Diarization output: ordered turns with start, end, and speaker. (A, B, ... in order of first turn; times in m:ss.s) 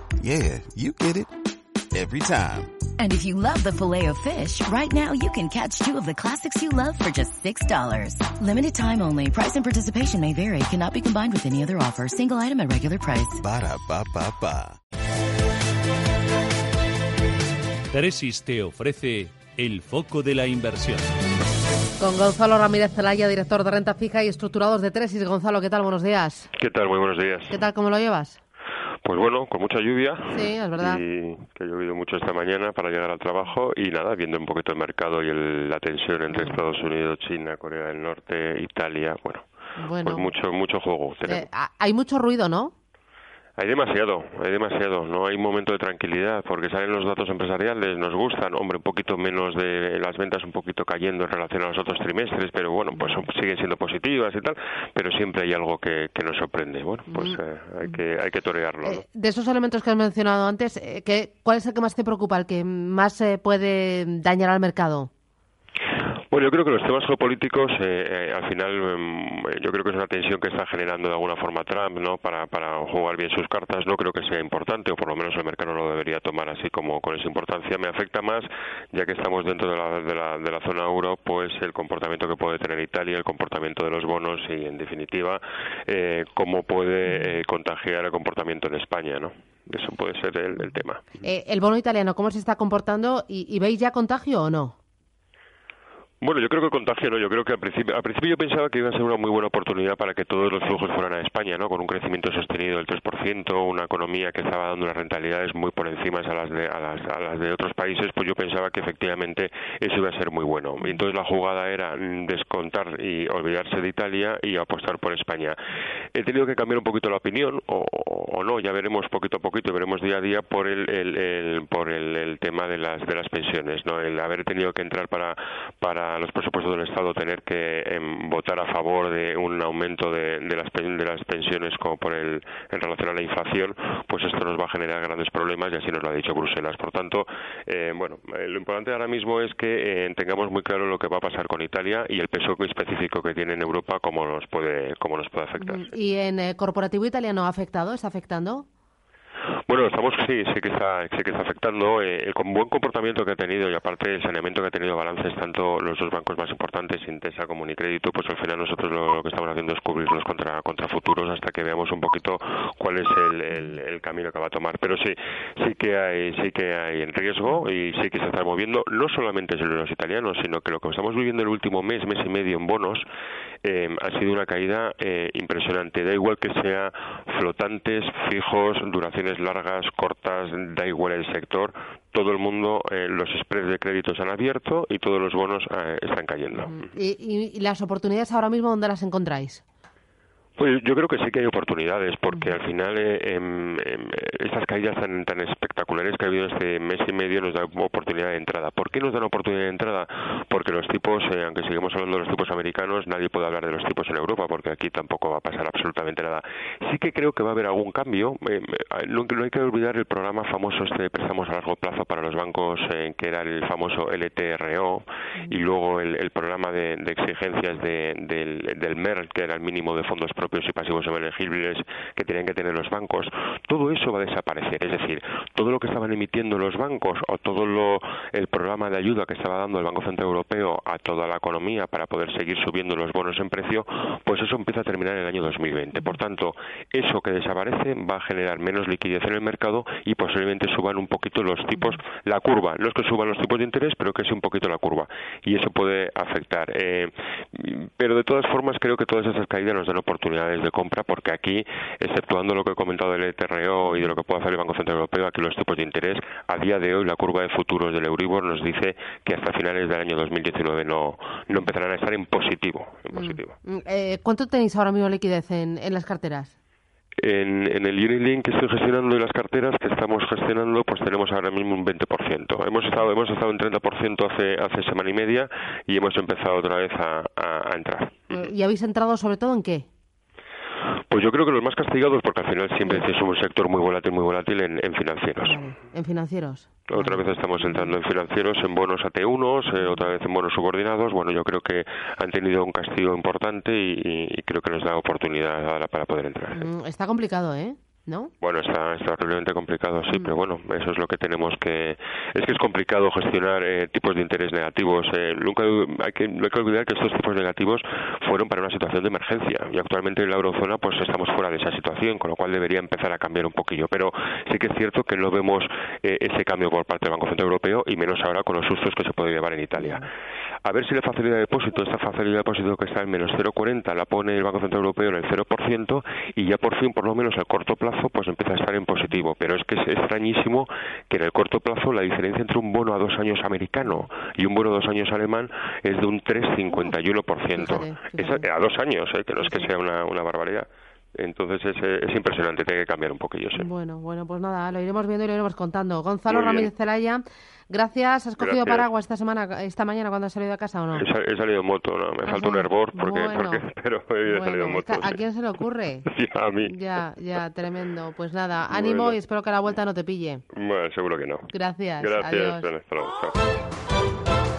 0:00.2-0:01.3 A
0:01.9-0:02.8 A
0:03.0-0:13.4 B
0:13.4-0:14.8 A
0:17.9-0:21.1 C
0:22.0-0:26.5 D
0:26.6-0:27.6 E
0:27.5-0:28.4 D
0:29.0-0:39.4 E
0:30.3-0:31.0 D
0:36.3-0:36.6 D
0:39.8-0:40.3 D
0:40.0-0:41.5 E
0:41.3-0:42.7 D
0:43.6-0:59.0 E
0:52.9-0:53.2 D
0:57.1-0:57.4 D
0:58.8-1:05.1 D
1:06.3-1:31.0 E
1:31.2-1:34.8 D
1:36.2-1:55.6 E
1:56.1-2:25.9 E
2:25.6-2:28.7 D
2:29.7-2:53.1 E
2:53.6-3:06.9 E
3:06.5-3:09.6 D
3:10.6-4:23.6 E
3:12.3-3:12.6 D
4:13.8-4:14.2 D
4:23.1-4:26.5 D
4:27.2-4:38.5 E
4:38.3-4:39.9 D
4:41.1-4:45.6 E
4:45.4-4:48.0 D
4:46.9-4:56.7 E
4:49.8-4:50.1 D
4:56.5-4:58.3 D
4:58.4-5:20.0 E
5:00.1-5:00.4 D
5:19.8-5:20.1 D
5:20.6-5:40.7 E
5:36.7-5:37.0 D
5:37.6-5:38.5 D
5:39.4-5:39.7 D
5:41.2-5:43.7 E
5:43.6-5:51.1 D
5:46.3-5:46.7 E
5:48.4-5:48.9 E
5:51.0-5:55.2 E
5:52.2-5:53.7 D
5:54.2-5:56.1 D
5:56.1-5:56.8 E
5:56.6-6:00.4 D
5:58.7-5:59.2 E
6:00.5-6:03.4 E
6:01.5-6:02.7 D